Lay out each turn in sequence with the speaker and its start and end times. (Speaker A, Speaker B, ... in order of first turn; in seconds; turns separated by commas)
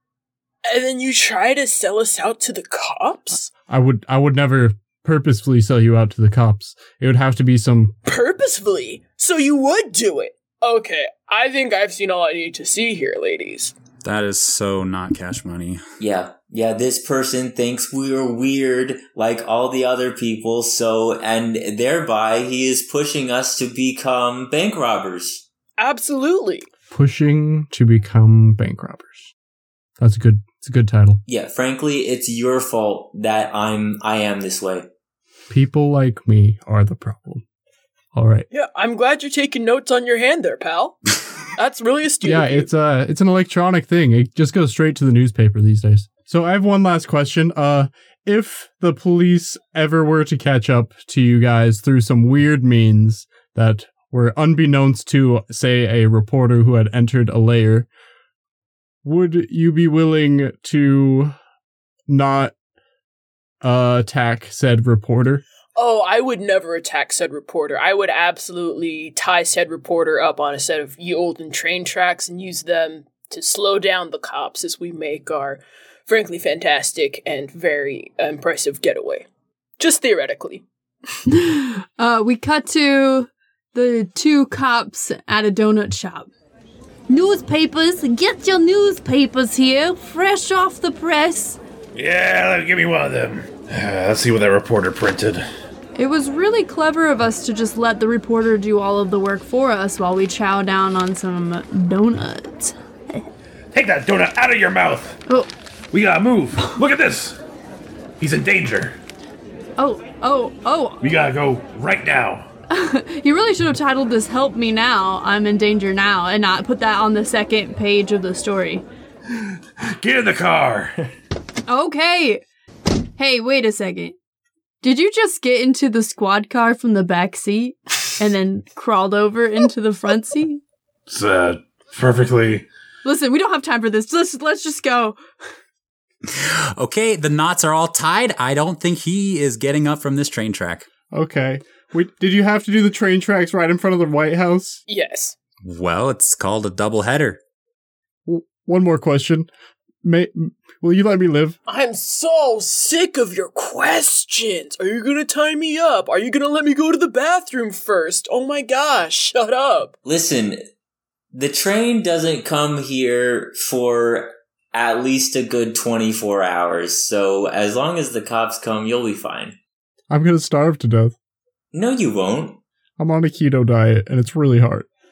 Speaker A: 0.7-3.5, Speaker B: 3.7-7.9, Speaker A: 8.1-13.7, Speaker C: 14.0-15.8, Speaker D: 16.0-25.4, Speaker A: 25.8-26.7, Speaker B: 26.9-29.3, Speaker B: 30.0-31.2, Speaker D: 31.3-34.9, Speaker B: 35.5-37.4, Speaker B: 38.1-38.5, Speaker A: 38.5-41.0, Speaker A: 41.5-42.7, Speaker B: 42.2-57.9, Speaker B: 59.0-61.3, Speaker B: 62.1-62.5, Speaker B: 63.6-65.4, Speaker A: 65.8-79.3, Speaker A: 79.8-80.6, Speaker E: 81.3-86.3, Speaker E: 87.1-91.6, Speaker F: 91.9-95.4, Speaker E: 95.9-103.3, Speaker F: 103.7-105.2, Speaker F: 105.9-107.4, Speaker F: 108.2-109.0, Speaker E: 109.8-111.0, Speaker F: 111.0-112.5, Speaker E: 112.7-118.8, Speaker F: 119.3-121.1, Speaker E: 121.7-122.4, Speaker E: 123.2-124.1, Speaker E: 124.8-130.6, Speaker F: 131.1-132.7, Speaker E: 133.0-135.2, Speaker C: 136.3-140.9, Speaker B: 141.1-144.8, Speaker A: 144.9-145.3, Speaker C: 145.6-147.4, Speaker B: 148.2-149.5, Speaker B: 150.0-151.6, Speaker A: 151.7-159.9, Speaker D: 160.0-160.6, Speaker D: 161.3-169.6, Speaker B: 170.1-171.1, Speaker D: 171.7-172.6, Speaker B: 173.0-174.9